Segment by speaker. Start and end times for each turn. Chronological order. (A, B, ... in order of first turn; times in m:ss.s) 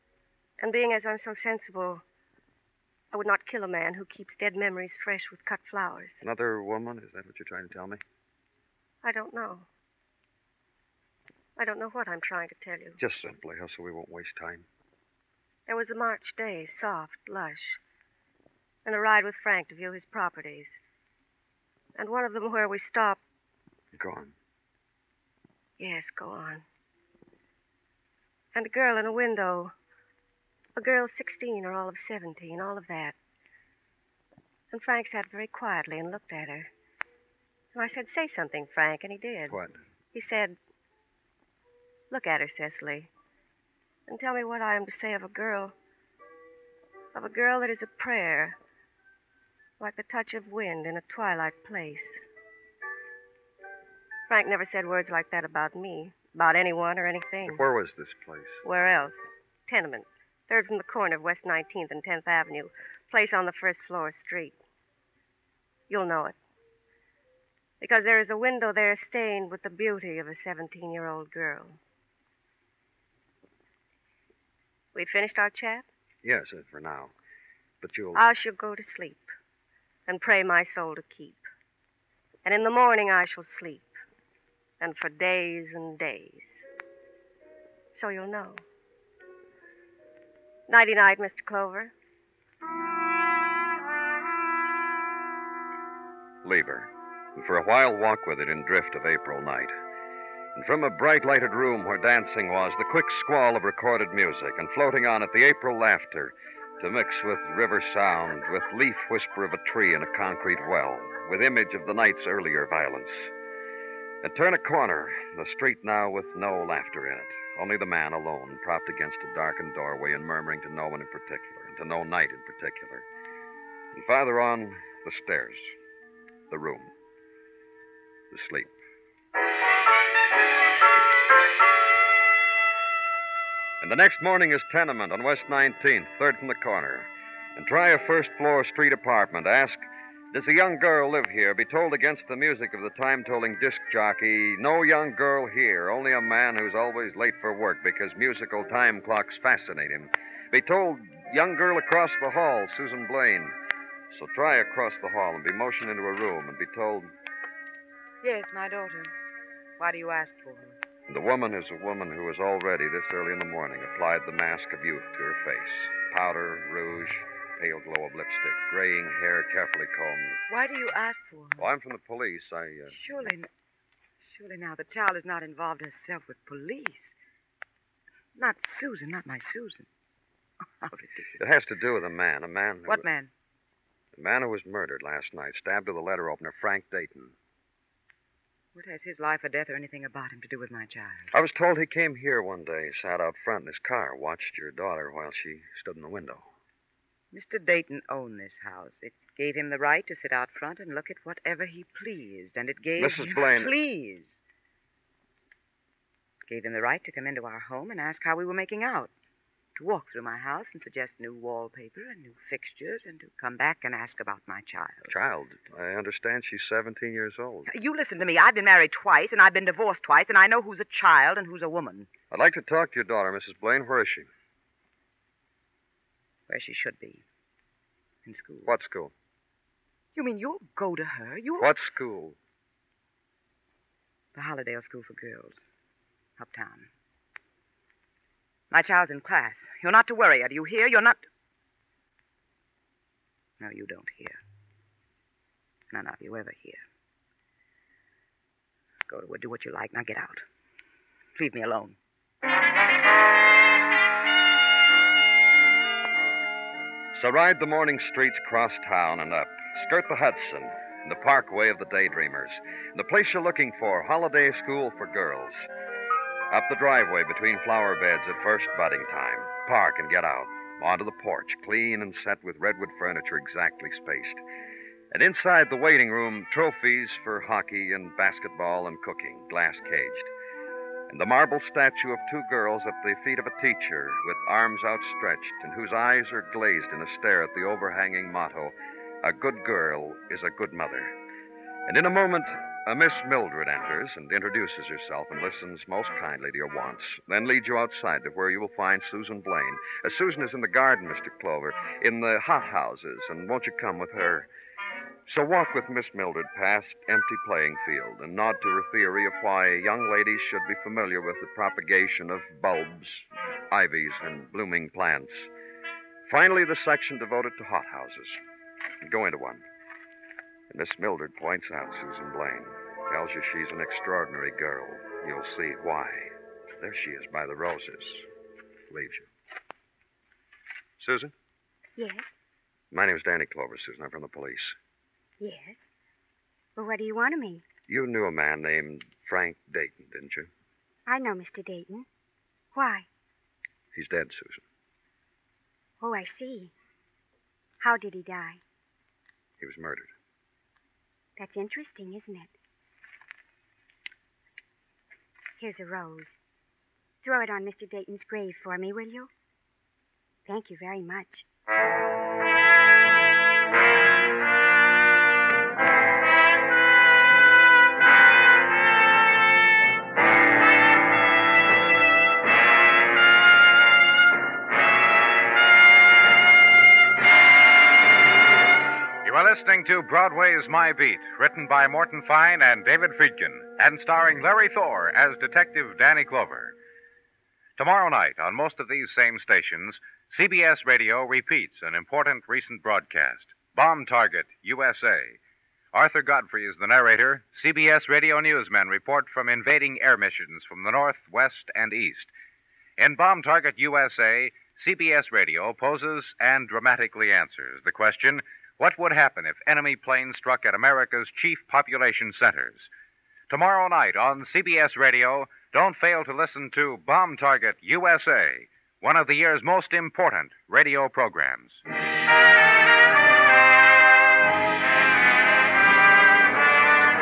0:00.6-0:02.0 A
0:03.1-0:06.2 A
0:06.2-0:08.0 B
0:09.0-0:09.7 A
0:11.6-0:13.0 A
0:13.0-0:14.7 B
0:15.7-0:17.8 A
0:18.8-0:20.8 A
0:22.0-0:23.2 A
0:23.9-0:24.3 B
0:25.8-0:26.6 A
0:28.5-0:29.7 A
0:30.8-0:33.2 A
0:34.7-0:36.7 A
0:37.7-0:39.6 A
0:39.5-0:39.8 B
0:40.1-0:40.6 A
0:42.1-0:43.1 A
0:44.1-0:45.7 A
0:47.1-0:48.6 A
0:49.8-0:52.2 A
0:54.3-0:57.7 A
0:57.4-0:58.6 B
0:58.6-1:04.6 A
1:05.9-1:06.4 A
1:07.8-1:11.8 A
1:14.9-1:15.9 A
1:16.2-1:17.1 B
1:17.8-1:18.4 B
1:18.2-1:19.3 A
1:20.1-1:21.4 A
1:22.4-1:23.9 A
1:24.8-1:26.6 A
1:28.0-1:28.6 A
1:30.7-1:31.9 A
1:36.4-1:39.7 B
1:40.6-1:53.3 B
1:54.2-2:03.1 B
2:03.9-2:05.8 B
2:06.5-2:06.9 B
2:08.3-2:08.8 B
2:13.8-2:33.6 B
2:34.1-2:37.1 B
2:38.2-2:39.1 C
2:39.8-2:40.8 C
2:41.1-2:50.4 B
2:50.5-2:51.7 C
2:51.6-2:53.3 B
2:52.9-2:53.5 C
2:54.3-2:57.2 C
2:58.4-2:59.9 C
3:00.8-3:01.4 C
3:01.4-3:03.1 B
3:02.9-3:03.3 C
3:04.2-3:07.4 B
3:08.8-3:11.3 C
3:11.3-3:16.5 B
3:17.3-3:24.4 C
3:23.0-3:23.8 B
3:26.5-3:29.1 C
3:29.8-3:35.1 C
3:35.1-3:37.7 B
3:37.7-3:42.1 C
3:42.3-3:44.3 B
3:46.5-3:47.2 C
3:48.2-3:48.7 C
3:48.6-3:49.1 B
3:50.2-3:51.7 C
3:51.6-3:52.4 B
3:54.4-3:55.6 C
3:56.4-3:56.9 C
3:58.7-4:01.2 C
4:03.6-4:04.4 C
4:05.9-4:06.8 C
4:09.1-4:10.4 C
4:11.4-4:12.0 C
4:17.1-4:25.6 B
4:26.5-4:34.4 B
4:35.1-4:40.3 B
4:41.1-4:51.1 B
4:51.9-5:04.5 B
5:05.3-5:15.5 B
5:16.3-5:18.4 B
5:19.0-5:19.6 B
5:20.7-5:28.3 B
5:28.9-5:29.3 B
5:31.0-5:31.3 B
5:32.0-5:32.3 D
5:32.9-5:34.8 B
5:35.4-5:35.9 D
5:36.8-5:37.6 D
5:37.9-5:40.5 B
5:41.1-5:42.1 D
5:42.7-5:43.1 D
5:43.9-5:44.6 B
5:46.0-5:46.7 D
5:47.8-5:48.6 D
5:49.6-5:50.1 B
5:51.4-5:52.5 D
5:55.6-5:56.4 D
5:57.2-5:59.3 D
6:00.5-6:01.5 D
6:19.2-6:26.8 E
6:27.8-6:35.4 E
6:35.9-6:42.3 E
6:43.0-6:52.9 E
6:53.5-7:01.8 E